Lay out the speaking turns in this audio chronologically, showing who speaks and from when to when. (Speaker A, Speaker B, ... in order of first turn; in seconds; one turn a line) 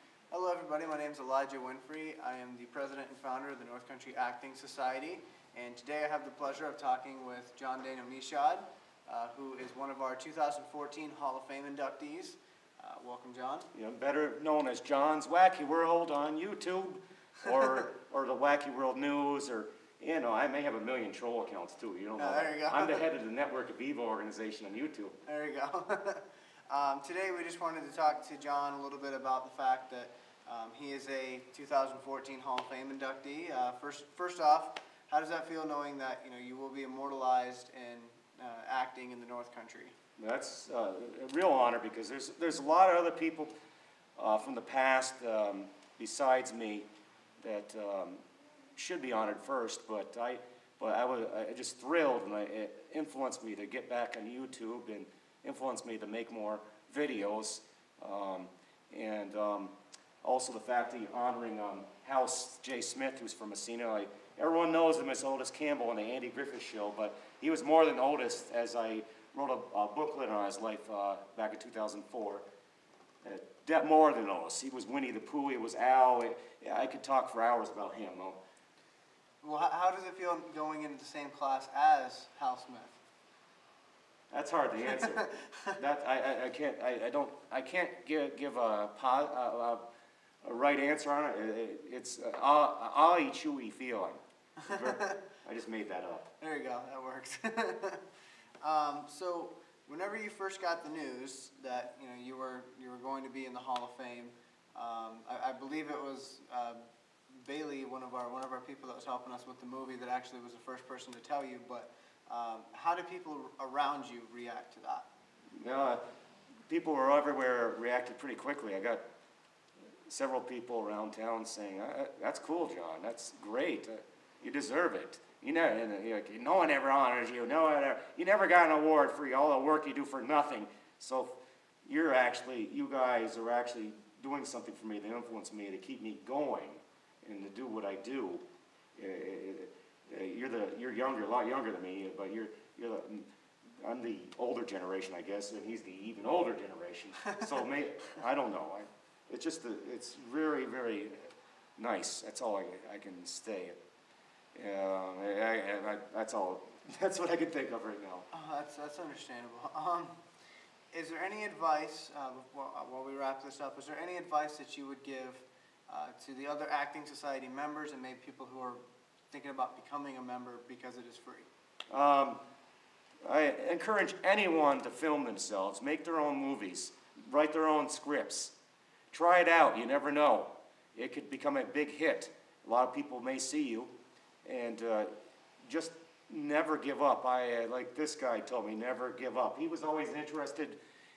Speaker A: 0.3-13.7
Speaker B: 13.7-25.1
Speaker A: 22.2-23.0
Speaker A: 25.2-39.9
Speaker B: 40.2-43.5
Speaker B: 44.2-46.9
Speaker B: 47.4-48.2
Speaker B: 48.8-72.4
Speaker B: 73.2-78.4
Speaker A: 79.4-83.0
Speaker B: 84.3-89.8
Speaker A: 84.9-85.8
Speaker B: 90.4-96.2
Speaker A: 94.6-95.2
Speaker A: 96.4-98.0
Speaker A: 98.6-115.0
Speaker B: 115.5-116.0
Speaker B: 116.7-119.0
Speaker B: 120.1-138.4
Speaker B: 138.9-143.3
Speaker B: 143.8-153.8
Speaker B: 154.5-158.2
Speaker A: 158.3-160.2
Speaker A: 160.9-171.5
Speaker B: 171.9-172.4
Speaker B: 173.2-178.5
Speaker B: 179.1-183.9
Speaker B: 184.4-185.1
Speaker B: 185.6-190.8